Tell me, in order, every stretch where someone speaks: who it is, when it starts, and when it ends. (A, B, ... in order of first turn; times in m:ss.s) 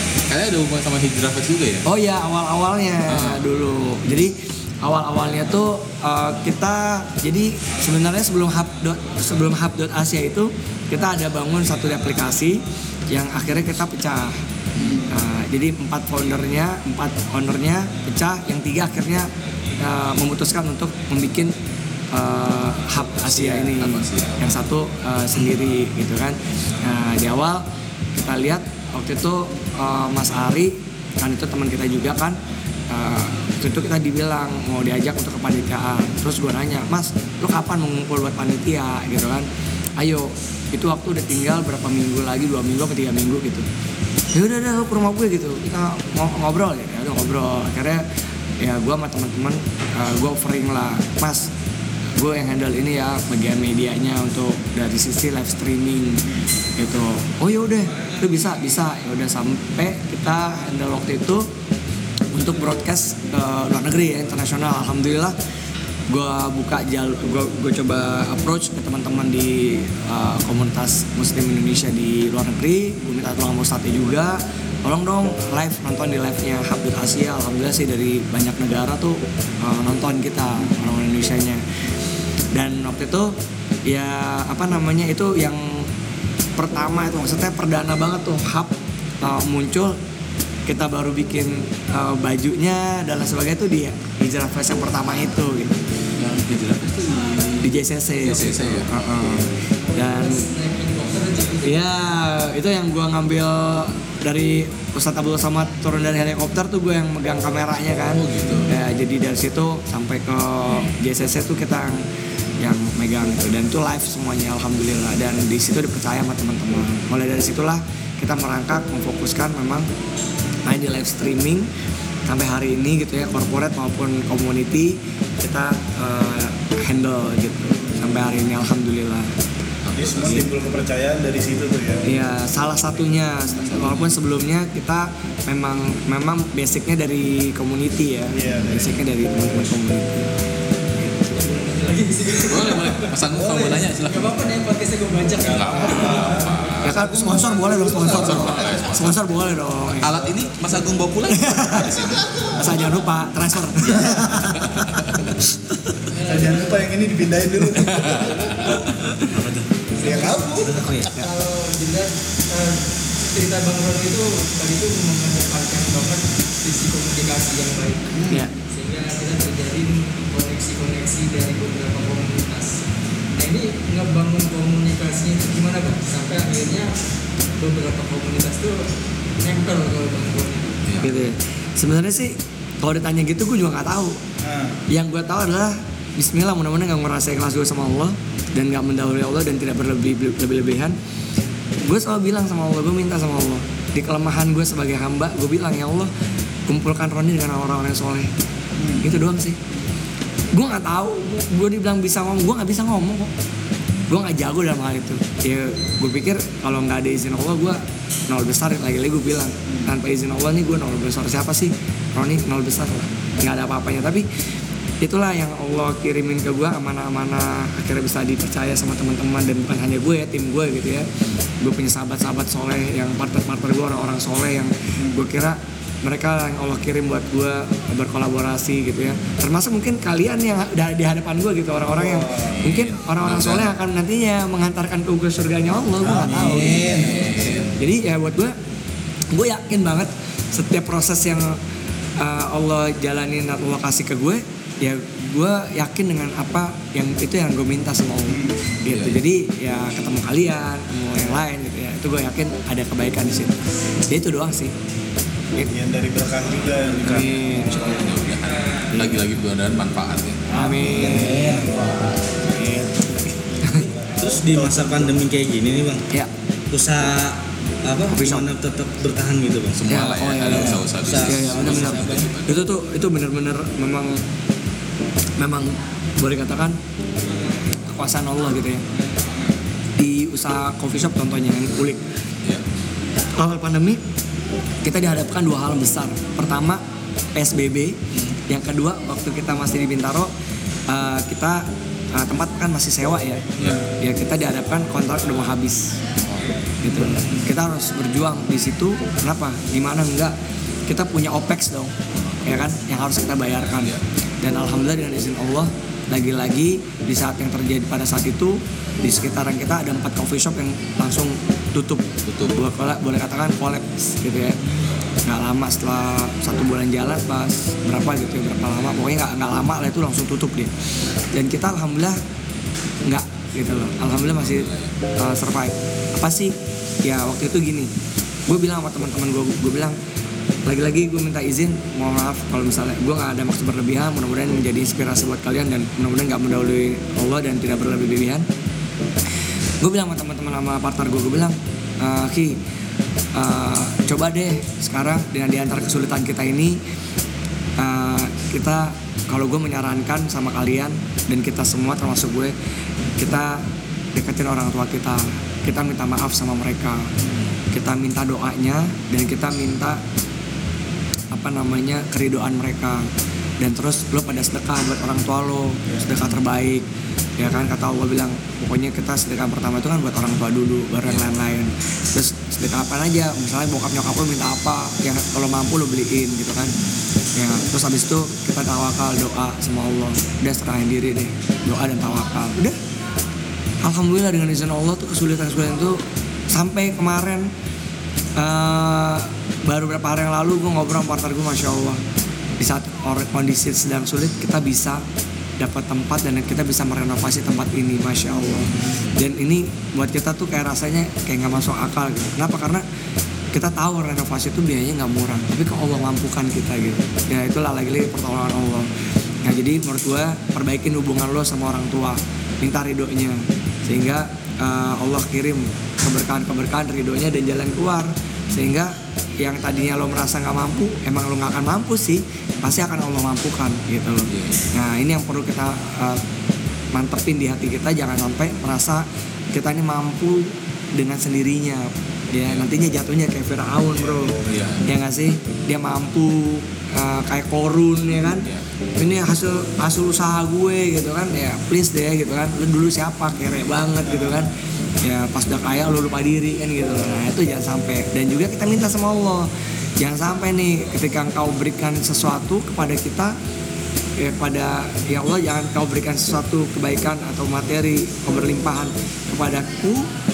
0:00.3-0:01.8 A
0:01.8-0:14.4 B
0:03.1-0:03.4 A
0:14.8-0:15.0 A
0:14.8-0:15.1 C
0:15.1-0:21.6 B
0:22.1-0:27.6 B
0:23.7-0:24.6 A
0:28.2-0:32.4 B
0:32.9-0:39.5 B
0:40.0-0:43.7 B
0:44.3-0:48.0 B
0:48.6-0:51.5 B
0:52.2-0:56.2 B
0:56.8-1:01.5 B
1:02.3-1:05.4 B
1:06.1-1:21.6 B
1:22.5-1:23.4 B
1:23.9-1:25.9 B
1:26.6-1:30.0 B
1:30.7-1:35.8 B
1:36.2-1:39.4 A
1:37.6-1:40.4 B
1:40.0-1:41.8 D
1:41.6-1:52.0 B
1:48.2-1:48.7 A
1:52.6-1:59.9 B
2:00.7-2:01.7 B
2:02.3-2:09.3 B
2:09.8-2:10.5 A
2:10.0-2:12.0 C
2:12.0-2:20.3 B
2:13.2-2:14.1 A
2:18.3-2:19.0 C
2:21.3-2:23.2 D
2:22.4-2:24.4 A
2:23.3-2:23.9 C
2:24.0-2:26.8 D
2:25.4-2:27.0 A
2:25.7-2:28.6 C
2:26.8-2:30.2 B
2:27.9-2:29.2 A
2:28.3-2:28.9 D
2:30.0-2:32.6 A
2:30.1-2:30.5 C
2:31.3-2:31.9 B
2:32.0-2:32.9 C
2:32.5-2:34.6 B
2:33.9-2:34.3 C
2:34.6-2:35.3 A
2:36.1-2:36.8 D
2:36.2-2:38.8 C
2:37.8-2:38.8 A
2:39.2-2:39.7 E
2:40.0-2:40.8 C
2:40.0-2:52.7 D
2:40.6-2:41.3 E
2:48.2-2:48.4 C
2:53.4-2:56.9 D
2:57.6-2:58.9 D
2:59.4-3:00.8 D
3:00.9-3:01.1 A
3:01.0-3:04.2 B
3:04.4-3:04.8 C
3:04.9-3:11.0 B
3:11.9-3:16.1 B
3:16.7-3:18.3 B
3:18.8-3:19.1 C
3:19.0-3:19.6 B
3:20.5-3:23.3 B
3:24.1-3:34.2 B
3:29.7-3:29.9 C
3:35.0-3:58.6 B
3:51.9-3:52.6 C
3:52.4-3:53.7 A
3:56.0-3:57.3 E
3:56.1-3:57.8 A
3:59.3-4:01.6 B
4:02.2-4:14.7 B
4:08.3-4:08.7 C
4:08.9-4:09.1 A
4:15.7-4:17.6 C
4:17.0-4:18.0 B
4:17.1-4:21.2 A
4:18.9-4:19.2 B
4:20.5-4:21.5 B
4:20.8-4:22.0 E
4:21.5-4:25.1 C
4:24.2-4:26.1 E
4:26.7-4:32.1 E
4:28.1-4:28.5 B
4:29.8-4:32.6 A
4:29.9-4:34.2 B
4:35.4-4:36.8 B
4:37.8-4:38.8 B
4:40.0-4:42.0 B
4:43.4-4:44.0 B
4:44.8-4:46.8 B
4:47.4-4:50.3 B
4:50.9-4:53.4 B
4:54.0-4:56.0 B
4:56.8-5:00.4 B
5:00.9-5:01.9 B
5:02.1-5:02.5 A
5:02.4-5:14.6 B
5:12.3-5:12.6 A
5:15.3-5:20.7 B
5:21.3-5:22.2 B
5:23.0-5:27.9 B
5:24.1-5:24.9 A
5:28.5-5:30.0 B
5:30.7-5:38.5 B
5:39.8-5:42.6 B
5:43.3-5:46.8 B
5:47.8-5:52.6 B
5:53.2-5:57.1 B
5:57.7-6:00.0 B
6:01.3-6:03.1 B
6:03.6-6:06.9 B
6:07.4-6:16.8 B
6:17.4-6:22.8 B
6:23.8-6:27.5 B
6:28.4-6:32.0 B
6:32.6-6:35.0 B
6:35.6-6:42.8 B
6:38.8-6:39.1 A
6:43.5-6:48.9 B
6:49.4-7:06.2 B
7:04.3-7:04.6 A
7:06.9-7:33.4 B
7:14.0-7:14.6 C
7:14.5-7:14.8 A
7:18.3-7:18.6 A
7:24.0-7:24.5 C
7:34.2-7:40.1 B